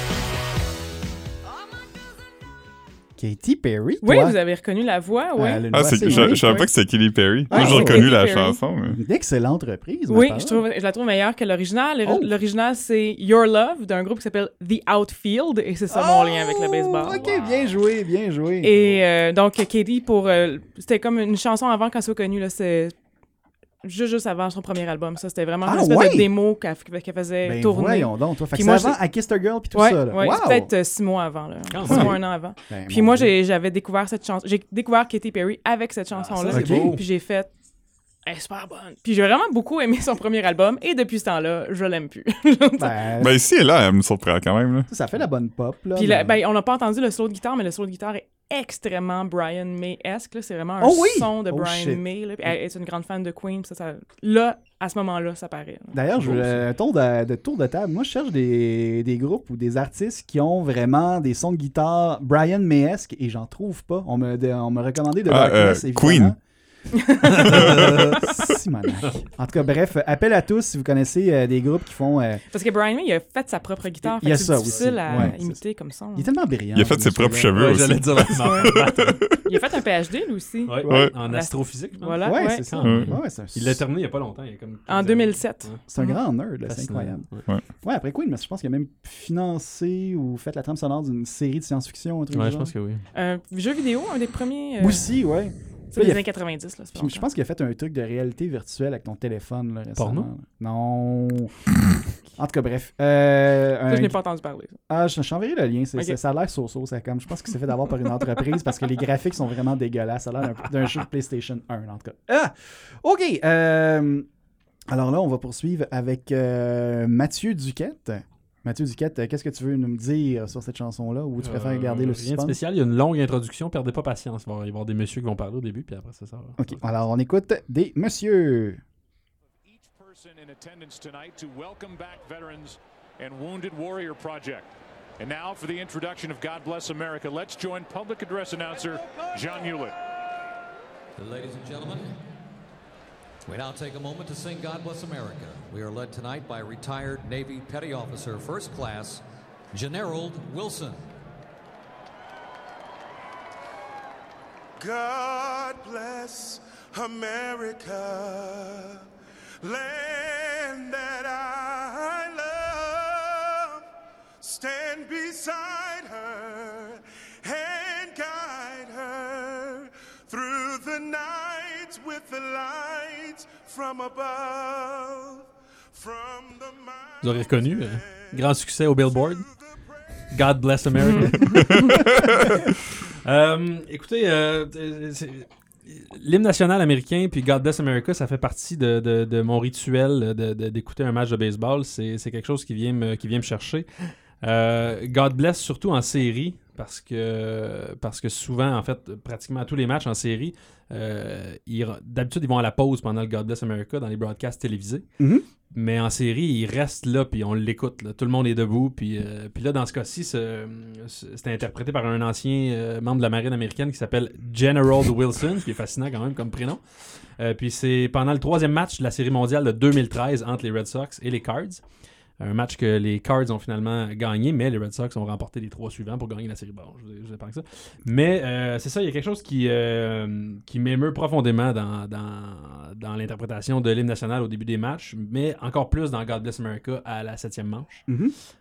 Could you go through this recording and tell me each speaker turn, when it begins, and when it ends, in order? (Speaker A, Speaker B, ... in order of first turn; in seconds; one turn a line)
Speaker A: 3.2-4.4
Speaker B: 4.0-6.7
Speaker A: 5.3-6.7
Speaker C: 5.7-9.0
Speaker A: 7.5-8.1
Speaker B: 7.5-8.6
Speaker A: 8.9-10.6
Speaker B: 10.1-17.2
Speaker A: 12.0-12.3
Speaker A: 15.9-18.8
Speaker B: 18.6-22.9
Speaker B: 23.8-29.0
Speaker A: 25.6-26.3
Speaker A: 27.4-30.7
Speaker B: 29.7-37.5
Speaker D: 31.7-32.2
Speaker A: 31.8-32.2
Speaker A: 32.7-33.3
Speaker D: 36.1-37.0
Speaker A: 36.5-37.0
Speaker B: 38.2-43.0
Speaker A: 42.8-43.3
Speaker C: 43.2-44.9
Speaker A: 44.9-46.4
Speaker B: 46.0-56.0
Speaker A: 50.8-52.5
Speaker A: 55.9-66.4
Speaker C: 65.3-66.3
Speaker D: 67.2-68.2
Speaker A: 67.4-72.4
Speaker B: 72.5-76.3
Speaker A: 74.0-75.6
Speaker D: 74.6-75.3
Speaker A: 76.1-77.6
Speaker C: 76.8-79.2
Speaker D: 77.5-79.2
Speaker B: 78.4-78.7
Speaker B: 79.4-82.7
Speaker D: 80.7-85.8
Speaker A: 82.2-83.8
Speaker C: 82.8-83.1
Speaker B: 84.9-86.2
Speaker A: 85.9-87.3
Speaker D: 86.6-87.4
Speaker A: 87.8-92.7
Speaker D: 92.3-93.0
Speaker B: 93.1-95.1
Speaker A: 94.8-96.2
Speaker B: 95.9-97.2
Speaker A: 96.9-101.5
Speaker D: 100.0-100.3
Speaker A: 102.4-104.2
Speaker B: 103.9-104.8
Speaker A: 104.9-114.3
Speaker A: 114.9-122.6
Speaker D: 121.4-126.8
Speaker A: 126.6-128.8
Speaker E: 129.6-139.9
Speaker F: 141.2-142.2
Speaker F: 143.4-149.2
Speaker F: 149.7-151.1
Speaker G: 154.8-159.1
Speaker G: 159.6-163.8
Speaker G: 164.4-179.8
Speaker D: 177.2-179.4
Speaker D: 180.3-182.6
Speaker B: 181.0-181.9
Speaker D: 183.2-193.9
Speaker D: 194.4-205.0
Speaker A: 205.2-205.4
Speaker D: 205.7-216.8
Speaker D: 217.4-221.8
Speaker D: 222.4-238.1
Speaker A: 238.1-238.3